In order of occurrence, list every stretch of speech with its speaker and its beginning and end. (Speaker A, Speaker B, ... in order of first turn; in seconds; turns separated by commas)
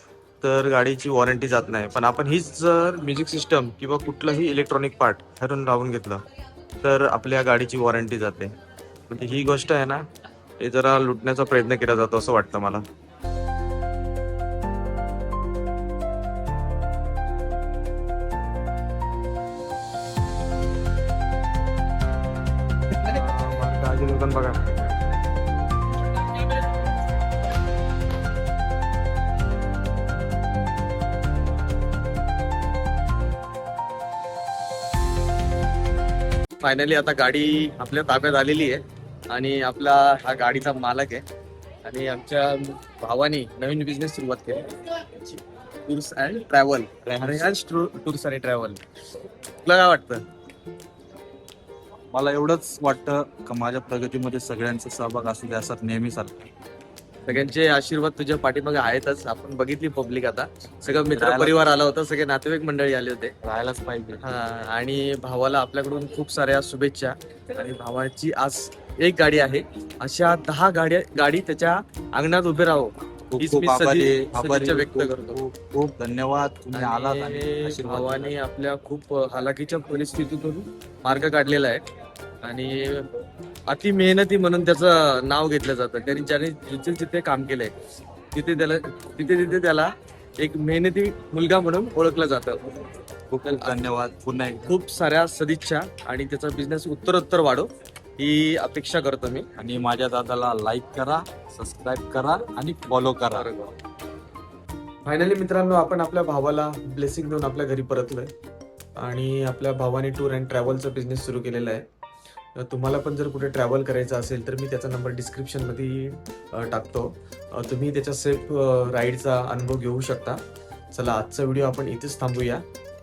Speaker A: 0.4-6.2, Speaker A: 6.8-8.5, Speaker A: 9.1-10.0, Speaker A: 10.6-12.8, Speaker A: 23.0-24.7, Speaker A: 36.6-41.2, Speaker A: 41.8-45.4, Speaker A: 45.9-48.8, Speaker B: 47.0-47.5, Speaker A: 49.6-50.2, Speaker B: 52.1-56.5, Speaker A: 57.3-63.3, Speaker B: 60.9-61.6, Speaker B: 63.4-64.2, Speaker A: 64.2-75.4, Speaker B: 73.3-78.3, Speaker A: 76.7-81.8, Speaker A: 82.4-83.1, Speaker A: 83.7-87.7, Speaker A: 88.3-92.8, Speaker B: 93.3-94.7, Speaker A: 93.4-93.8, Speaker A: 94.7-99.5, Speaker B: 99.5-103.5, Speaker A: 103.3-103.7, Speaker A: 105.0-108.3, Speaker A: 109.0-111.8, Speaker A: 112.6-120.4, Speaker A: 120.9-122.6